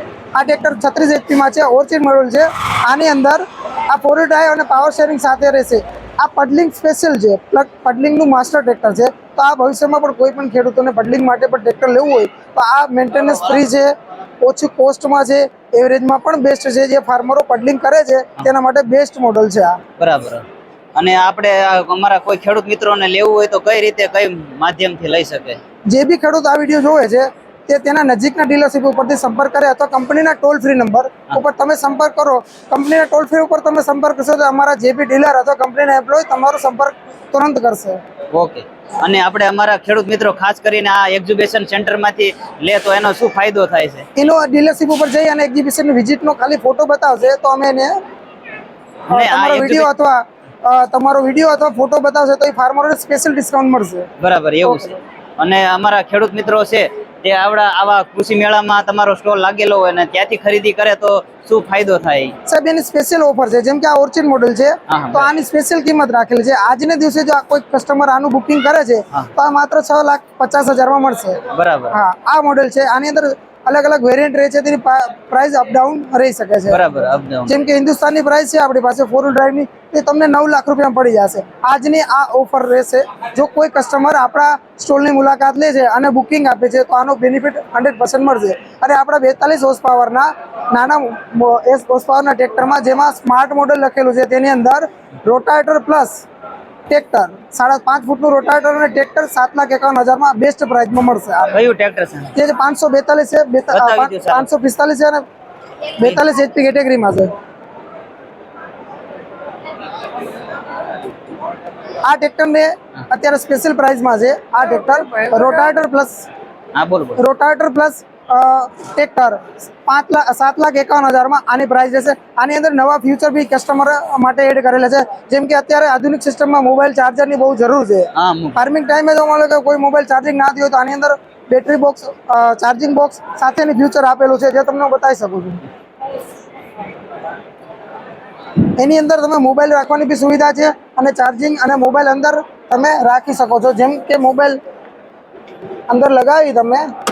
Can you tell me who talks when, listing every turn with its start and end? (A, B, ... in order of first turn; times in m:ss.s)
0:00.4-0:19.8 A
0:20.0-0:25.6 B
0:25.9-0:38.0 A
0:38.3-0:44.1 B
0:44.2-0:48.0 A
0:49.1-0:49.9 B
0:49.1-0:54.1 A
0:54.2-1:02.4 B
1:02.5-1:16.8 A
1:04.9-1:05.3 B
1:11.5-1:12.0 B
1:16.7-1:17.6 B
1:17.5-1:36.2 A
1:36.9-1:41.6 A
1:41.5-1:42.3 B
1:42.4-1:45.2 A
1:43.7-1:44.5 B
1:46.0-1:47.3 A
1:52.0-1:56.3 A
1:56.8-1:57.2 B
1:57.2-2:15.6 A
2:08.2-2:08.6 B
2:18.8-2:24.6 A
2:25.9-2:26.9 A